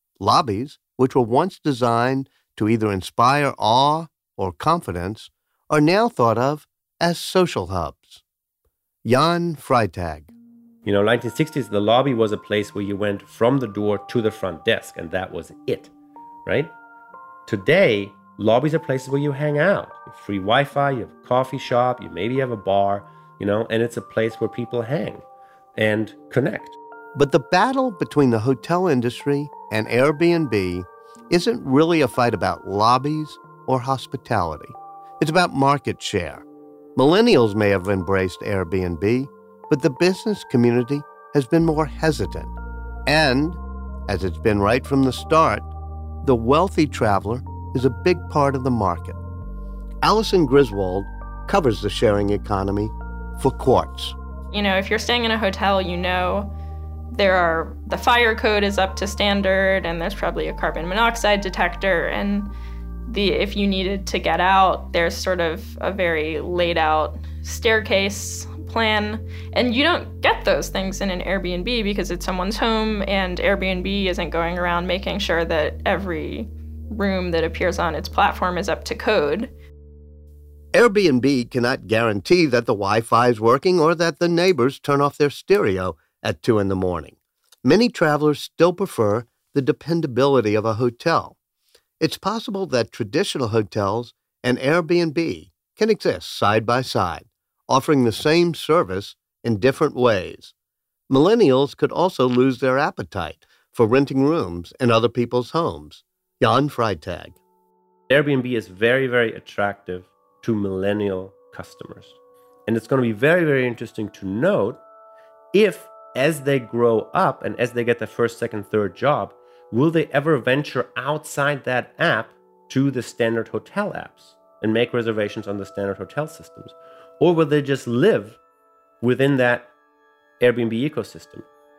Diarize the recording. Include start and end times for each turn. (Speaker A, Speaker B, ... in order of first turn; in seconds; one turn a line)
Speaker A: 0.2-8.2
Speaker A: 9.0-10.3
Speaker B: 10.8-15.9
Speaker B: 16.4-16.7
Speaker B: 17.5-25.2
Speaker B: 25.8-26.8
Speaker A: 27.1-36.4
Speaker A: 37.0-42.5
Speaker A: 43.0-45.7
Speaker A: 46.2-49.2
Speaker A: 50.0-54.1
Speaker C: 54.5-56.5
Speaker C: 57.1-62.5
Speaker C: 63.1-79.5
Speaker A: 80.7-91.3
Speaker A: 92.0-100.5
Speaker A: 101.1-107.4
Speaker B: 108.1-114.8
Speaker B: 115.5-128.4
Speaker B: 129.0-129.7
Speaker B: 130.4-131.4